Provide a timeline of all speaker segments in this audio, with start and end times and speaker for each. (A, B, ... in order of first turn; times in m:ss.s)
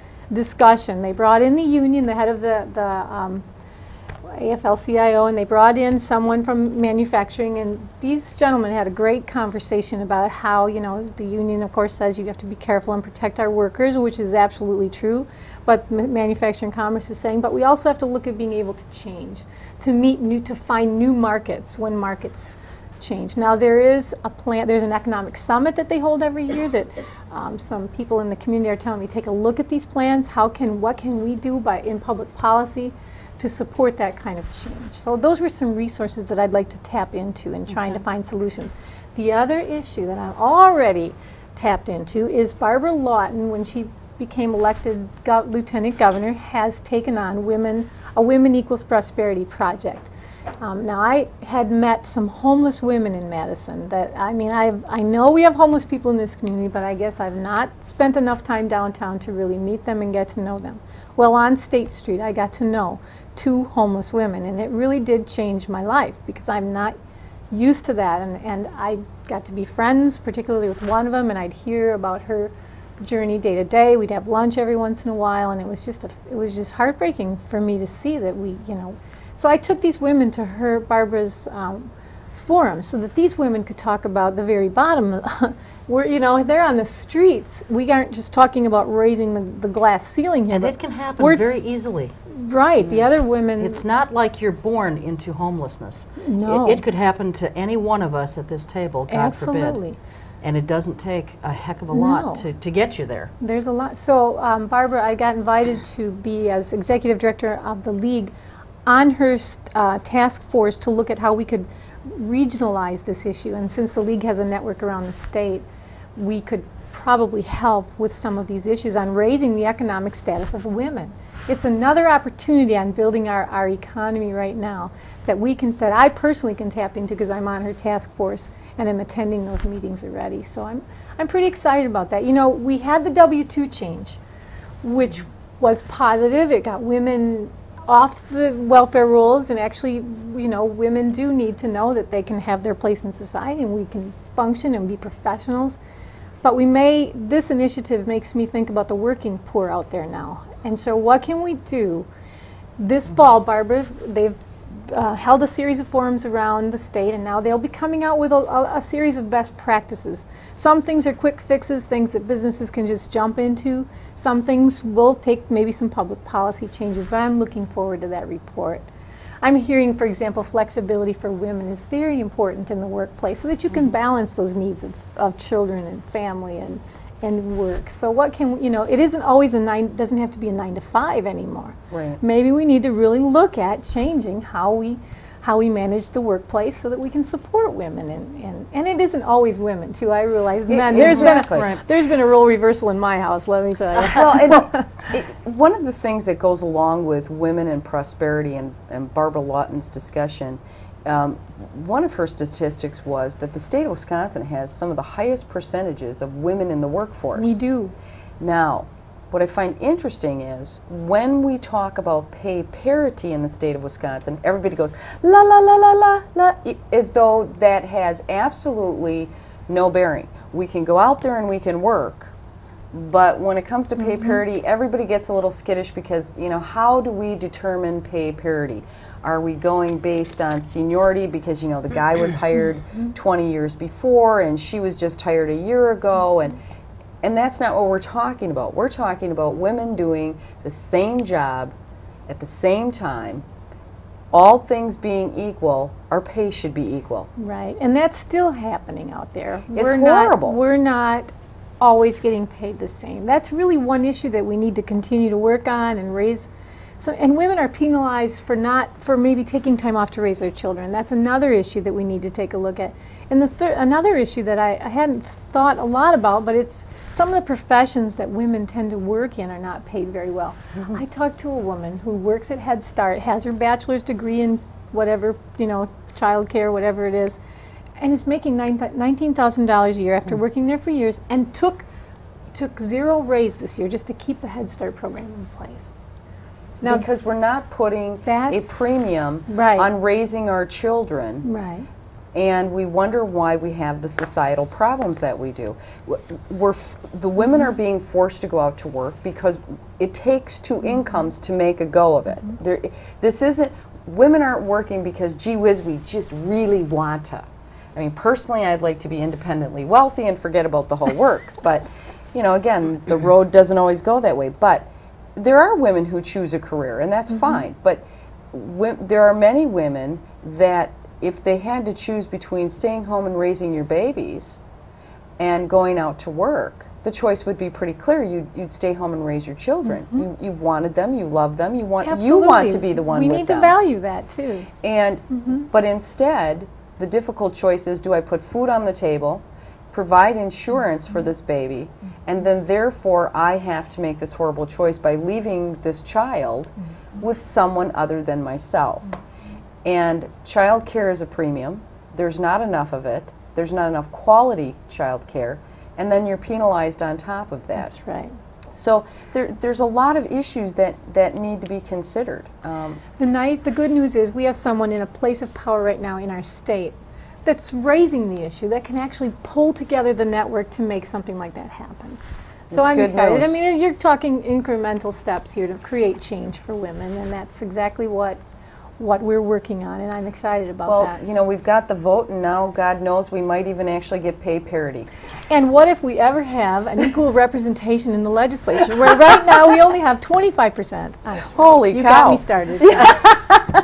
0:00.3-0:03.4 A
0:04.3-1:06.9 A
1:07.5-1:31.4 A
1:30.5-1:32.1 B
1:32.3-1:33.8 A
1:33.6-1:39.8 B
1:36.2-1:36.8 A
1:39.1-1:40.0 A
1:40.4-1:43.3 B
1:41.9-1:42.4 A
1:43.4-1:48.3 A
1:48.8-1:55.6 A
1:56.2-2:14.2 A
2:14.8-2:25.8 A
2:26.4-2:32.1 A
2:32.8-2:48.8 A
2:49.4-3:14.9 A
3:01.9-3:02.2 C
3:10.7-3:11.7 C
3:11.0-3:11.8 B
3:14.1-3:27.6 C
3:27.4-3:27.9 A
3:28.4-3:42.3 C
3:42.9-3:56.6 C
3:57.2-4:01.7 C
4:02.3-4:03.4 C
4:04.3-4:07.3 C
4:07.4-4:37.4 A
4:09.7-4:10.6 C
4:38.0-4:41.8 A
4:42.5-4:46.0 A
4:46.8-4:51.4 C
4:48.2-4:48.8 A
4:49.5-4:49.9 A
4:51.4-4:51.9 A
4:52.3-5:24.6 C
5:25.4-5:33.7 C
5:32.0-5:34.7 A
5:34.8-5:49.2 C
5:35.3-5:35.6 A
5:49.8-5:57.9 C
5:57.8-5:58.3 A
5:58.7-6:03.0 C
6:03.2-6:12.2 A
6:12.7-6:13.6 C
6:12.7-6:18.4 A
6:19.0-6:21.2 A
6:20.9-6:25.1 C
6:25.5-6:33.0 A
6:31.5-6:33.6 C
6:32.9-6:33.4 B